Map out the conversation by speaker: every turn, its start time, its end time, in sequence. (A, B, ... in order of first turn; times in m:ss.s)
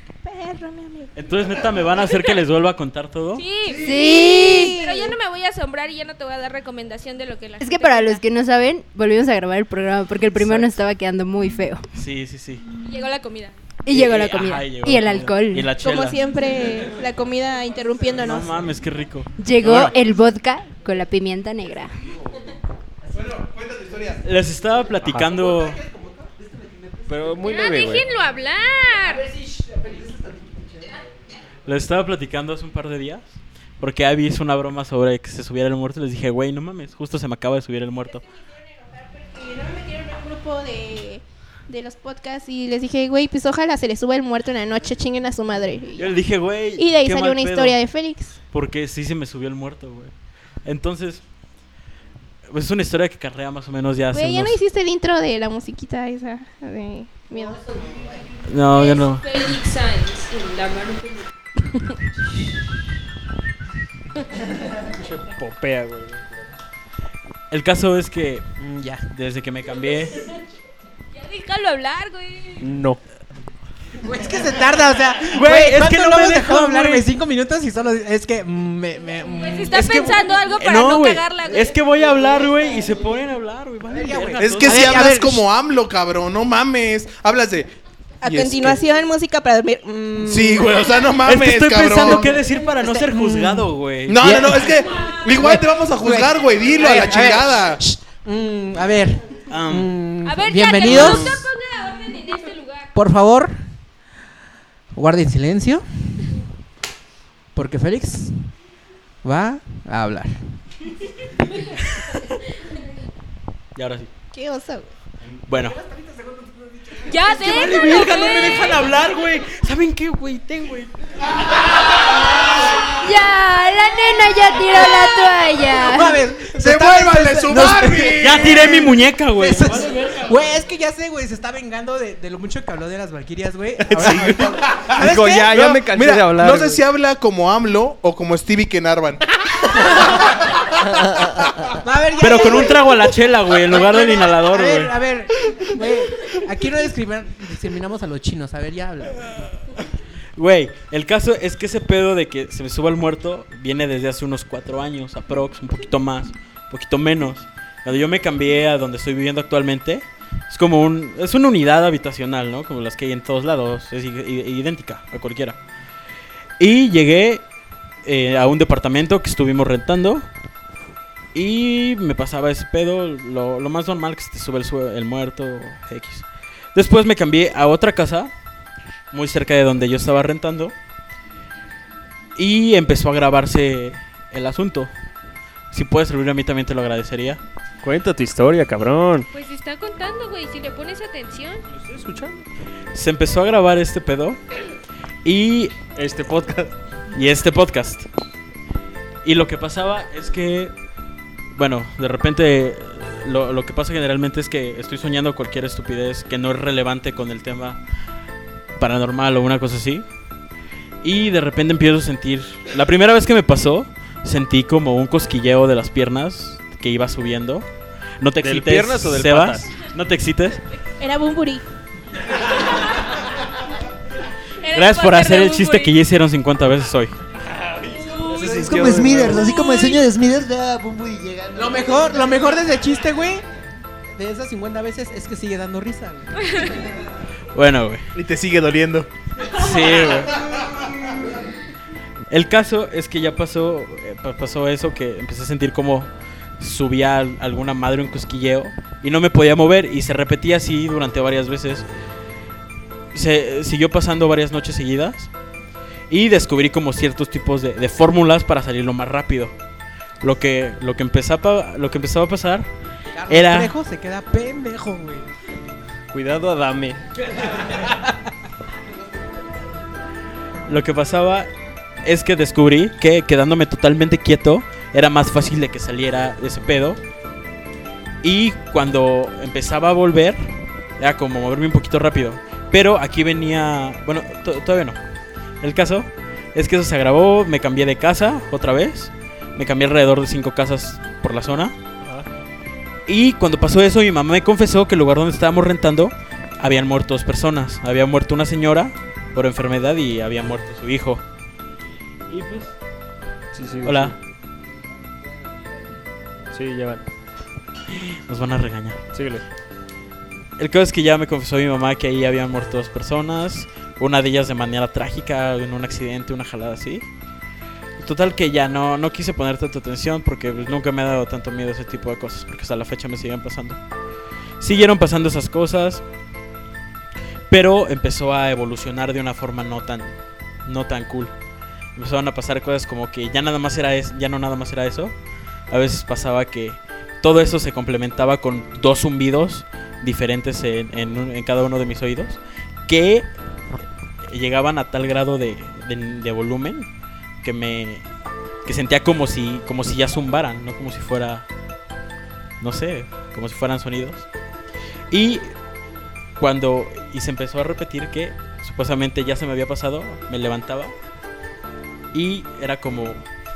0:00.2-0:01.1 A
0:01.2-0:03.4 B
0:03.4-0:08.2 C
0:03.8-0:04.8 D
0:03.8-0:05.2 A
0:07.6-0:11.8 D
0:10.4-0:10.7 B
0:11.9-0:12.6 B
0:12.8-0:13.6 C
0:13.8-0:15.7 D
0:13.9-0:16.2 B
0:15.8-0:18.6 A
0:18.2-0:20.0 B
0:19.4-0:21.9 D
0:23.2-0:24.2 E
0:24.2-0:25.8 B
0:25.0-0:25.4 F
0:25.4-0:26.3 G
0:27.1-0:28.1 F
0:27.4-0:29.2 C
0:29.4-0:29.8 G
0:31.7-0:38.2 B
0:39.0-0:48.4 A
0:46.0-0:47.8 B
0:48.5-0:50.1 B
0:50.6-0:51.2 B
0:52.5-0:54.6 B
0:54.1-0:57.6 A
0:58.5-0:59.3 B
0:58.7-1:01.2 C
1:05.0-1:06.5 F
1:07.5-1:08.4 B
1:08.6-1:09.1 G
1:09.1-1:10.2 B
1:11.1-1:12.7 C
1:12.6-1:13.0 F
1:14.0-1:20.4 G
1:15.3-1:17.1 B
1:19.3-1:21.7 C
1:20.6-1:25.1 B
1:23.9-1:25.4 G
1:24.4-1:27.7 E
1:28.2-1:30.9 A
1:28.3-1:28.7 E
1:30.2-1:32.4 E
1:31.2-1:34.4 B
1:32.8-1:33.7 G
1:34.1-1:37.8 E
1:34.2-1:34.8 G
1:35.3-1:41.5 G
1:39.5-1:39.9 B
1:40.2-1:42.9 C
1:40.8-1:41.5 B
1:42.9-1:43.6 G
1:45.0-1:45.8 G
1:47.6-1:48.5 G
1:49.2-1:50.4 G
1:53.8-1:54.1 B
1:54.3-1:54.9 A
1:55.5-1:55.8 B
1:55.7-1:58.9 G
1:57.1-1:58.8 C
1:57.4-2:00.9 B
2:03.0-2:06.2 D
2:05.8-2:15.7 G
2:06.5-2:08.8 E
2:07.5-2:09.9 B
2:13.9-2:20.1 E
2:14.0-2:14.4 F
2:15.0-2:16.8 F
2:21.8-2:22.9 G
2:22.2-2:24.9 B
2:23.7-2:29.3 G
2:30.4-2:45.6 B
2:46.6-2:47.4 B
2:48.0-2:50.3 B
2:51.3-2:58.3 B
2:59.1-3:00.7 B
3:02.4-3:04.9 B
3:05.7-3:07.4 B
3:07.8-3:09.3 F
3:09.3-3:11.6 C
3:11.7-3:12.5 F
3:12.9-3:14.4 B
3:15.2-3:15.8 B
3:16.0-3:16.7 F
3:17.2-3:18.1 B
3:19.2-3:20.7 B
3:21.6-3:27.8 B
3:28.8-3:30.0 B
3:31.0-3:37.7 B
3:38.2-3:40.6 B
3:38.4-3:39.8 F
3:41.0-3:41.7 A
3:44.6-3:45.9 C
3:44.7-3:47.1 B
3:47.5-3:49.5 F
3:48.0-3:48.6 C
3:48.4-3:52.6 H
3:48.4-3:49.0 G
3:49.4-3:50.0 C
3:51.6-3:53.4 G
3:54.2-3:56.5 G
3:57.5-3:58.0 B
3:58.2-3:59.1 E
3:59.5-4:00.4 B
4:02.3-4:11.8 B
4:13.1-4:15.3 B
4:16.1-4:19.5 B
4:20.2-4:22.7 B
4:23.2-4:25.2 G
4:23.3-4:23.7 B
4:26.1-4:27.0 F
4:30.7-4:31.5 B
4:32.0-4:37.0 B
4:38.2-4:40.4 B
4:41.0-4:45.0 B
4:45.6-4:51.7 B
4:53.1-5:01.2 B
5:02.3-5:02.7 B
5:03.5-5:04.2 F
5:03.8-5:04.1 B
5:06.5-5:07.1 F
5:08.3-5:09.0 B
5:09.1-5:09.4 F
5:10.6-5:17.0 B
5:18.0-5:23.8 B
5:24.6-5:26.0 B
5:27.5-5:30.1 B
5:30.6-5:31.3 B
5:32.0-5:35.1 B
5:35.7-5:43.3 B
5:44.3-5:46.9 B
5:47.4-5:48.0 B
5:48.6-5:51.4 B
5:52.6-5:54.3 B
5:55.1-5:55.5 B
5:56.4-6:00.9 B
6:02.1-6:03.2 B